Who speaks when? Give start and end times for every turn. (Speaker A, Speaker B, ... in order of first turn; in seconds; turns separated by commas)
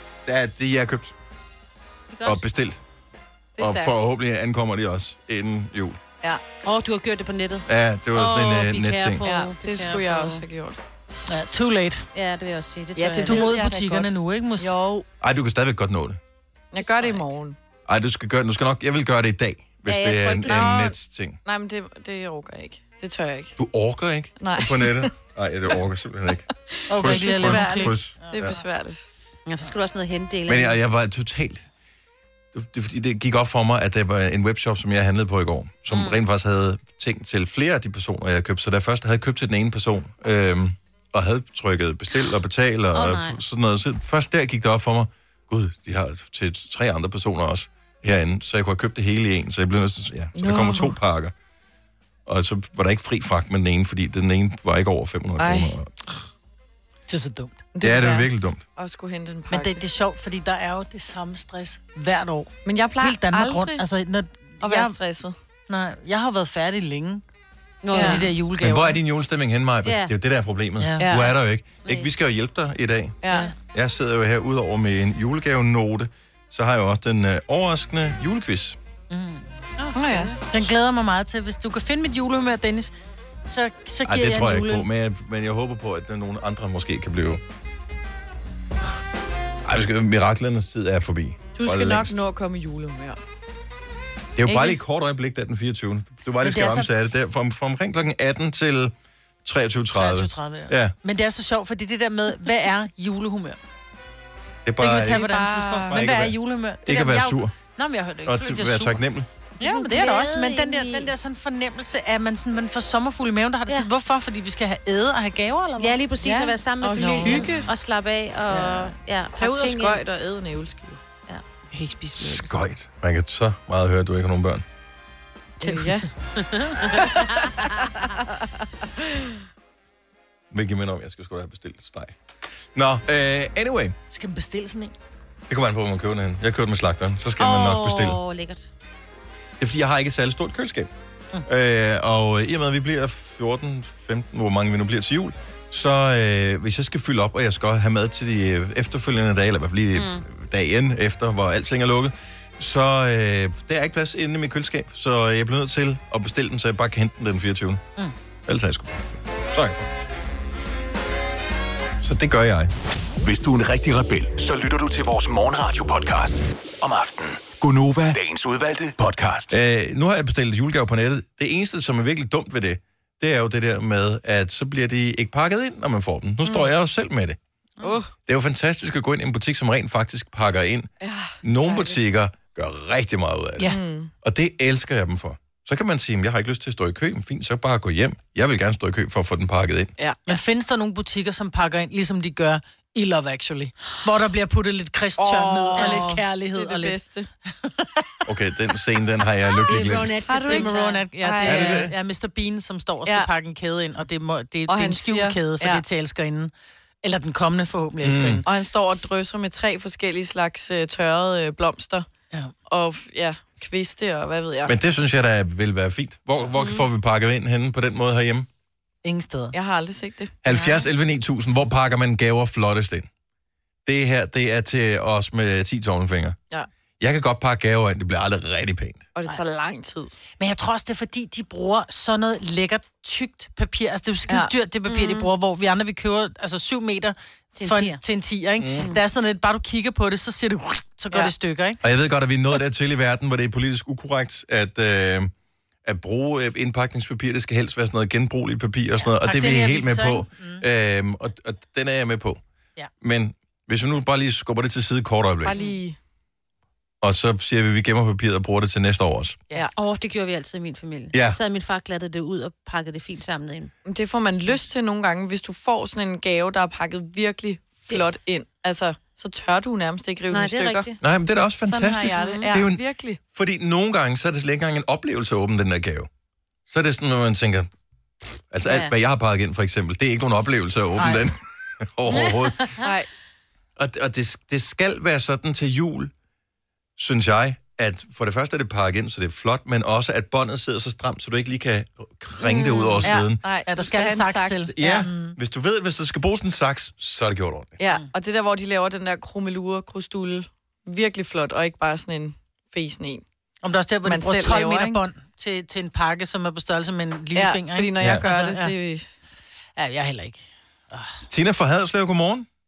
Speaker A: 0.2-1.1, Speaker B: 2.1-2.4, Speaker A: 2.2-2.8, Speaker C: 3.6-3.9, Speaker A: 3.6-6.0, Speaker B: 6.6-10.4, Speaker A: 7.7-9.2, Speaker C: 9.2-10.8, Speaker D: 11.3-12.1, Speaker B: 12.1-13.5, Speaker C: 12.9-15.1, Speaker D: 13.2-14.8, Speaker A: 15.2-16.2, Speaker C: 16.7-17.6, Speaker B: 16.8-17.2, Speaker A: 17.9-21.4, Speaker B: 19.9-20.6, Speaker C: 20.4-23.5, Speaker A: 23.6-28.6, Speaker C: 24.4-25.1, Speaker C: 26.7-29.0, Speaker D: 26.9-28.6, Speaker B: 29.4-30.8, Speaker A: 30.5-31.7, Speaker A: 32.5-51.3, Speaker B: 35.9-36.1, Speaker B: 42.9-43.4, Speaker C: 50.4-50.9, Speaker A: 52.2-56.2, Speaker C: 55.4-55.8, Speaker D: 57.1-57.6, Speaker C: 57.7-59.8, Speaker A: 57.8-58.6, Speaker D: 59.5-65.0, Speaker C: 62.6-63.8, Speaker C: 64.6-65.3, Speaker D: 65.7-67.2, Speaker B: 67.8-68.3, Speaker C: 67.9-68.3, Speaker D: 67.9-69.0, Speaker A: 68.6-73.2, Speaker B: 69.8-70.1, Speaker D: 70.8-71.1, Speaker C: 71.0-71.3, Speaker C: 73.2-73.5, Speaker A: 73.7-78.8, Speaker D: 79.1-79.5, Speaker B: 79.8-80.4, Speaker C: 80.0-80.3, Speaker D: 80.5-82.9, Speaker D: 83.5-84.8, Speaker A: 84.0-87.4, Speaker A: 89.6-92.2, Speaker C: 91.6-93.2, Speaker A: 94.4-100.9, Speaker D: 96.4-96.9, Speaker D: 99.9-103.6, Speaker A: 104.6-105.2, Speaker D: 104.8-109.0, Speaker C: 104.9-106.0, Speaker A: 105.9-107.5, Speaker A: 108.2-109.3, Speaker D: 109.6-116.0, Speaker B: 109.6-111.1, Speaker B: 115.8-120.0, Speaker C: 116.2-117.7, Speaker D: 117.0-117.6, Speaker C: 119.3-121.0, Speaker D: 121.7-122.6, Speaker A: 122.2-124.6, Speaker C: 125.6-126.1, Speaker B: 125.6-127.9, Speaker C: 126.8-127.9, Speaker A: 130.5-132.2, Speaker A: 132.7-133.9, Speaker D: 134.1-134.9, Speaker A: 135.5-138.2, Speaker B: 137.4-138.7, Speaker A: 139.6-140.9, Speaker A: 141.4-157.8, Speaker B: 149.9-150.2, Speaker A: 158.5-159.9, Speaker A: 162.0-162.7, Speaker E: 163.2-169.5, Speaker A: 169.5-177.4, Speaker C: 176.4-176.7, Speaker C: 177.8-178.1, Speaker A: 178.2-180.9, Speaker C: 181.0-182.0, Speaker A: 181.4-189.9, Speaker C: 183.6-184.1, Speaker D: 190.3-197.0, Speaker C: 195.2-197.3, Speaker D: 197.6-198.0, Speaker A: 198.2-200.2, Speaker B: 199.7-201.0, Speaker C: 200.3-201.9, Speaker D: 200.4-206.5, Speaker A: 201.4-201.9, Speaker C: 204.7-205.8, Speaker D: 207.0-208.4, Speaker A: 208.0-208.4, Speaker C: 208.4-212.1, Speaker C: 212.7-214.7, Speaker A: 214.7-218.5, Speaker B: 216.6-216.8, Speaker D: 219.0-219.5, Speaker C: 219.5-220.3, Speaker A: 220.4-223.1, Speaker D: 220.5-220.8, Speaker A: 223.8-226.4, Speaker A: 227.0-229.0, Speaker C: 229.2-230.1, Speaker D: 230.4-241.8, Speaker B: 234.9-235.2, Speaker B: 237.6-238.0, Speaker A: 238.6-238.9, Speaker A: 241.8-245.3, Speaker A: 245.8-252.4, Speaker D: 249.2-250.6, Speaker A: 253.0-255.6, Speaker C: 255.4-256.0, Speaker A: 257.0-259.4, Speaker B: 259.7-263.7, Speaker A: 261.1-261.4, Speaker C: 263.9-270.9, Speaker B: 270.3-271.0, Speaker A: 271.0-272.8, Speaker C: 271.6-273.2, Speaker B: 272.2-272.6, Speaker A: 273.3-276.1, Speaker A: 276.7-277.7, Speaker A: 278.2-282.8, Speaker B: 278.6-278.9, Speaker D: 280.9-281.2, Speaker B: 282.1-282.8, Speaker C: 282.8-283.1, Speaker A: 283.8-286.1, Speaker A: 287.0-293.4, Speaker B: 292.4-293.0, Speaker C: 293.0-295.1, Speaker D: 293.6-295.4, Speaker A: 294.7-297.8, Speaker C: 297.8-303.2, Speaker D: 303.6-308.7, Speaker C: 304.0-305.0, Speaker C: 307.3-309.1, Speaker D: 309.8-311.2, Speaker A: 311.3-312.5